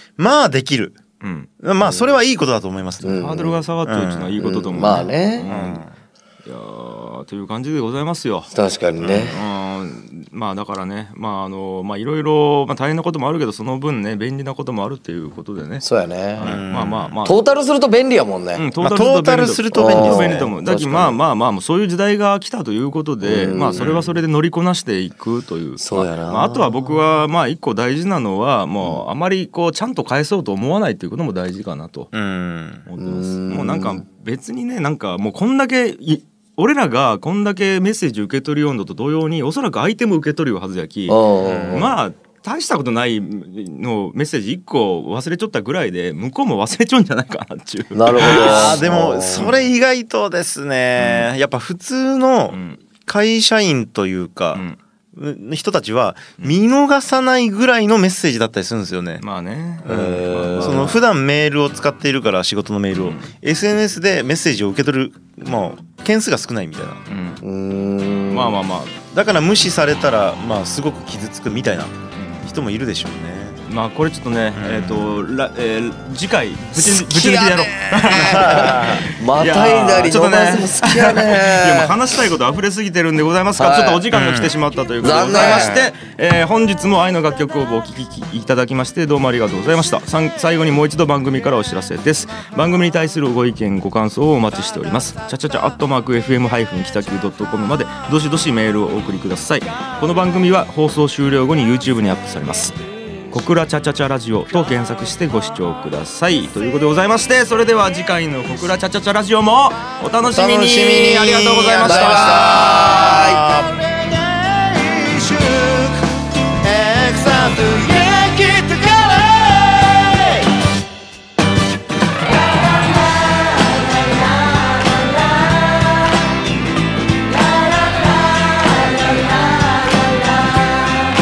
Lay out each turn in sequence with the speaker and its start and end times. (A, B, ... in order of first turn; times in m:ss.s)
0:00.2-0:01.0 A
0:01.2-0:01.5 B
0:01.6-0:03.2 A
0:01.8-0:02.1 C
0:03.0-0:03.6 C
0:03.1-0:05.9 B
0:03.9-0:05.9 A
0:04.4-0:05.4 C
0:06.4-0:08.5 B
0:08.5-0:09.4 C
0:09.0-0:15.8 B
0:15.8-0:16.5 C
0:16.4-0:17.4 B
0:16.4-0:17.2 A
0:17.2-0:18.6 C
0:18.6-0:32.1 B
0:18.8-0:20.5 A
0:19.7-0:21.2 C
0:23.2-0:24.0 C
0:25.8-0:26.7 C
0:32.1-0:32.9 A
0:32.9-0:48.8 B
0:33.0-0:34.0 C
0:41.1-0:41.9 C
0:47.9-0:49.5 C
0:48.2-0:54.6 A
0:51.0-0:51.3 B
0:52.5-0:52.8 B
0:55.1-0:59.2 A
0:59.2-1:00.9 B
0:59.8-1:01.0 C
0:59.8-1:07.0 A
1:03.0-1:03.2 B
1:07.1-1:07.4 B
1:07.4-1:08.6 C
1:08.3-1:09.0 B
1:09.1-1:13.6 A
1:12.2-1:12.5 B
1:13.7-1:42.8 B
1:14.6-1:15.1 A
1:16.7-1:21.9 C
1:18.1-1:19.0 A
1:23.6-1:24.0 C
1:24.1-1:24.5 A
1:25.0-1:25.7 C
1:25.4-1:25.9 A
1:43.3-1:52.8 B
1:50.3-2:00.5 A
1:51.8-1:53.4 C
2:07.5-2:09.9 A